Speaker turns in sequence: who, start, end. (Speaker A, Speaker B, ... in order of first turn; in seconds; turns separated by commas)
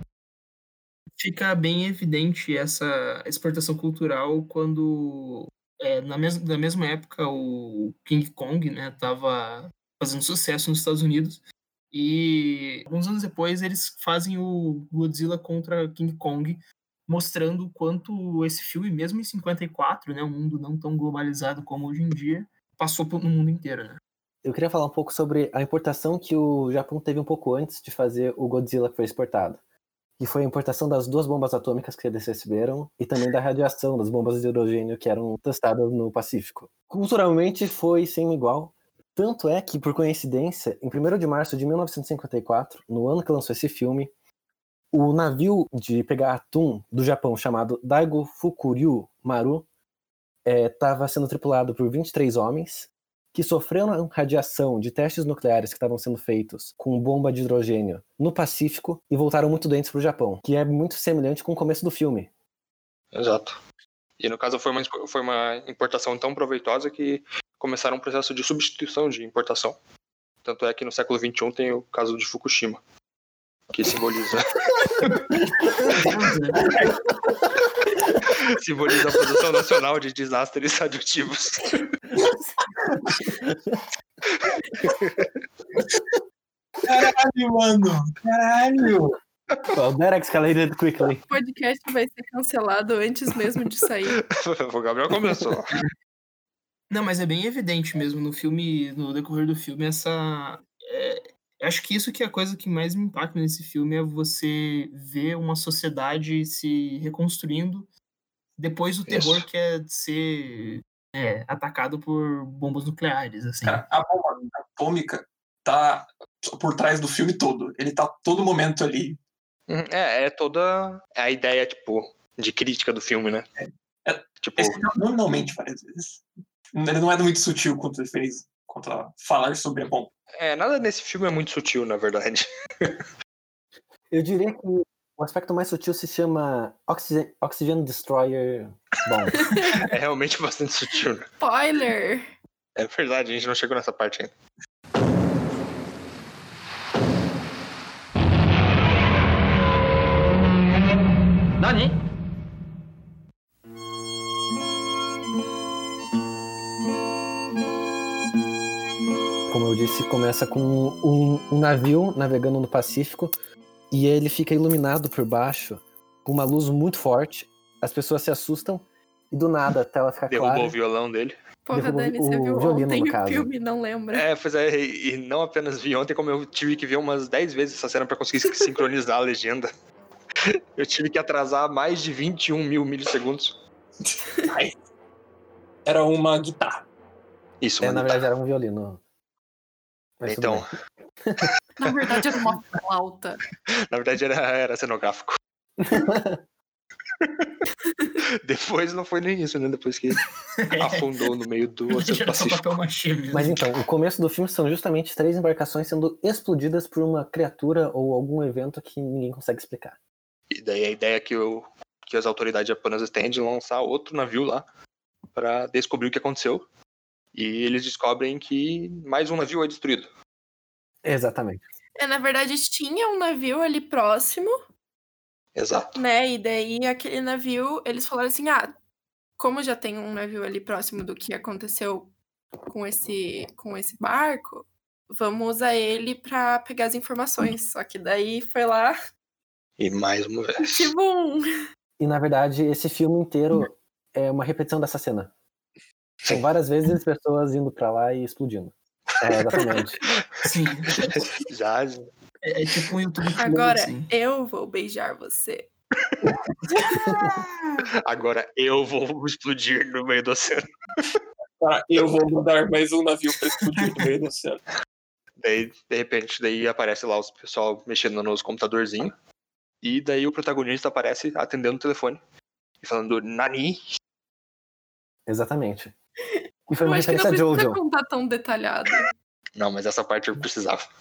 Speaker A: 1.2-24.0, Speaker B: 24.4-29.6, Speaker B: 30.2-44.1, Speaker B: 44.9-49.7, Speaker B: 50.5-62.3, Speaker C: 63.1-63.6, Speaker C: 64.2-69.8, Speaker C: 70.4-72.8, Speaker C: 73.7-75.2, Speaker A: 75.8-76.8, Speaker C: 78.3-81.8, Speaker D: 82.2-83.1, Speaker C: 84.3-85.3, Speaker D: 86.8-89.2, Speaker B: 89.7-91.2, Speaker E: 91.3-94.2, Speaker C: 94.3-95.7, Speaker A: 96.9-107.9, Speaker A: 108.6-113.8, Speaker C: 109.1-109.5, Speaker D: 113.6-119.2, Speaker C: 119.7-123.5, Speaker D: 123.6-130.1, Speaker C: 124.4-124.8, Speaker C: 130.4-132.9, Speaker B: 134.1-139.5, Speaker E: 139.4-139.7, Speaker C: 139.7-141.3, Speaker E: 141.4-142.3, Speaker C: 142.8-144.3, Speaker B: 159.5-163.4, Speaker B: 163.9-170.7, Speaker C: 170.3-171.3, Speaker E: 171.7-174.3, Speaker B: 171.7-173.5, Speaker C: 174.1-179.7, Speaker C: 180.8-183.6, Speaker D: 184.4-184.8, Speaker D: 185.8-186.9, Speaker C: 187.6-188.2, Speaker B: 187.8-189.0, Speaker B: 190.2-190.7, Speaker C: 190.2-190.7, Speaker B: 191.2-191.5, Speaker E: 191.8-193.4, Speaker C: 193.9-195.4, Speaker B: 195.8-196.4, Speaker C: 197.2-197.5, Speaker C: 198.4-200.2, Speaker A: 200.6-201.0, Speaker C: 200.8-202.8, Speaker A: 201.9-203.6, Speaker B: 203.3-210.0, Speaker C: 210.5-214.7, Speaker C: 215.3-216.7, Speaker C: 217.3-220.1, Speaker B: 221.0-221.6, Speaker E: 222.0-224.6, Speaker C: 225.6-225.9, Speaker E: 225.9-228.7, Speaker E: 229.4-232.1, Speaker E: 232.7-239.0, Speaker C: 239.8-240.9, Speaker E: 240.6-241.5, Speaker B: 242.0-245.3, Speaker B: 246.3-250.0, Speaker A: 250.4-251.3, Speaker C: 251.1-252.1, Speaker A: 252.4-254.1, Speaker E: 253.4-255.7, Speaker A: 256.7-257.7, Speaker B: 257.1-257.3, Speaker C: 257.9-261.0, Speaker D: 261.6-264.6, Speaker A: 263.8-264.1, Speaker C: 265.4-269.1, Speaker C: 269.8-272.2, Speaker C: 272.8-273.8, Speaker B: 275.3-275.9, Speaker B: 276.7-277.8, Speaker E: 276.8-279.1, Speaker C: 279.6-280.9